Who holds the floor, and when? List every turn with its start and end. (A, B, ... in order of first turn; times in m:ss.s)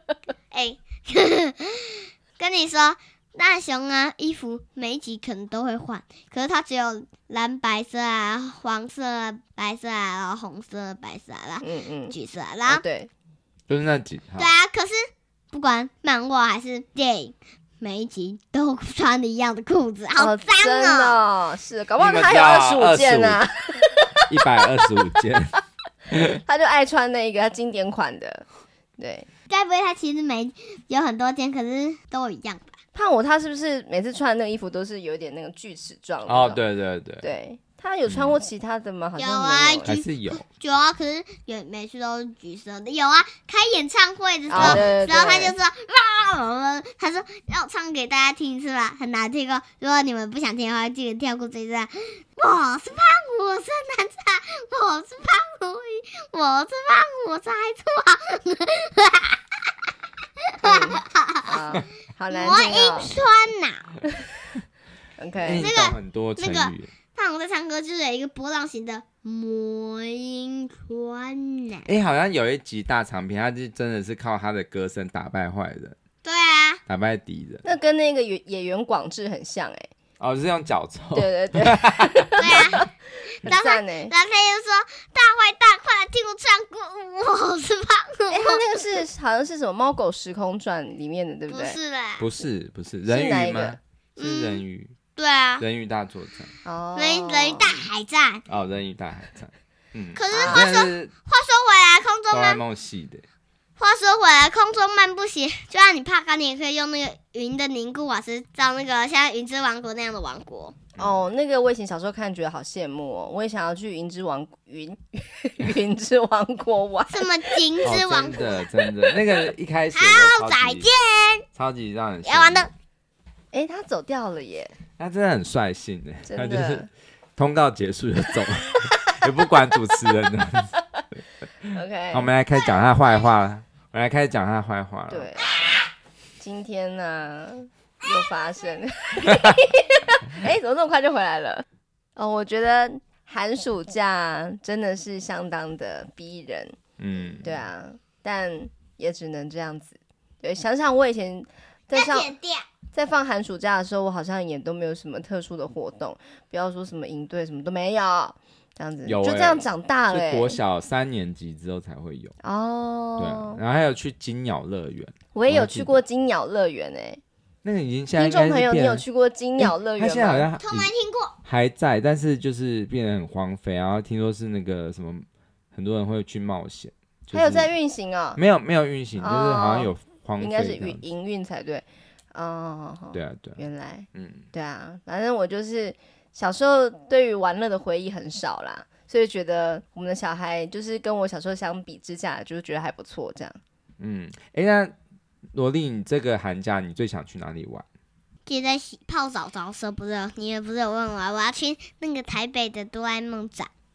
0:00.5-0:12.8 A
0:11.6-0:12.1 B
0:12.7-0:13.1 B
0:13.7-0:14.5 C
0:14.4-0:21.2 A
0:20.2-0:25.0 B
0:22.0-0:23.4 C
0:24.3-0:25.6 C
0:26.1-0:26.4 C
0:26.4-0:28.4 B
0:29.0-0:29.3 B
0:29.5-0:32.8 A
0:32.9-0:36.6 B
0:36.2-0:37.2 C
0:37.2-0:39.9 B
0:38.1-0:38.4 C
0:39.2-0:59.7 A
0:39.8-0:40.4 C
0:44.5-0:45.5 B
0:44.5-0:44.9 C
1:00.4-1:01.6 A
1:00.6-1:03.2 B
1:02.3-1:03.9 A
1:05.2-1:05.7 B
1:05.4-1:06.9 C
1:05.6-1:11.9 A
1:11.8-1:16.0 C
1:16.2-1:16.8 A
1:16.9-1:17.6 C
1:17.6-1:19.9 B
1:20.2-1:22.8 C
1:21.1-1:22.9 B
1:22.4-1:22.9 A
1:23.4-1:24.1 B
1:23.4-1:28.6 A
1:28.3-1:31.8 B
1:31.5-1:32.3 A
1:32.2-1:35.0 C
1:33.1-1:33.8 B
1:34.2-1:34.6 A
1:35.2-1:35.6 A
1:35.6-1:36.5 C
1:36.6-1:37.8 B
1:37.0-1:38.4 A
1:38.5-1:41.1 C
1:40.1-1:42.6 A
1:40.3-1:40.7 B
1:42.3-1:43.2 C
1:43.8-1:50.8 A
1:51.0-1:51.2 C
1:51.0-1:57.6 B
1:57.1-1:58.7 A
1:57.8-2:00.9 C
1:59.9-2:01.4 A
2:01.5-2:02.7 C
2:02.2-2:02.7 A
2:03.5-2:04.7 B
2:05.0-2:10.7 C
2:06.2-2:06.9 B
2:11.7-2:12.3 B
2:12.1-2:15.3 C
2:15.1-2:15.6 B
2:16.4-2:21.6 B
2:22.2-2:26.8 B
2:27.0-2:27.6 C
2:27.4-2:32.3 B
2:31.9-2:32.6 A
2:32.9-2:40.6 B
2:39.0-2:42.3 C
2:42.4-2:43.6 B
2:43.2-2:46.0 C
2:45.3-2:47.2 B
2:47.6-2:49.0 C
2:48.2-2:50.5 B
2:49.6-2:50.9 C
2:50.6-2:51.4 A
2:51.4-2:57.7 C
2:57.3-2:58.4 B
2:58.4-3:01.0 C
2:59.2-3:13.6 B
3:03.1-3:03.6 C
3:04.1-3:04.4 C
3:14.0-3:14.9 C
3:15.5-3:17.8 C
3:18.4-3:23.7 A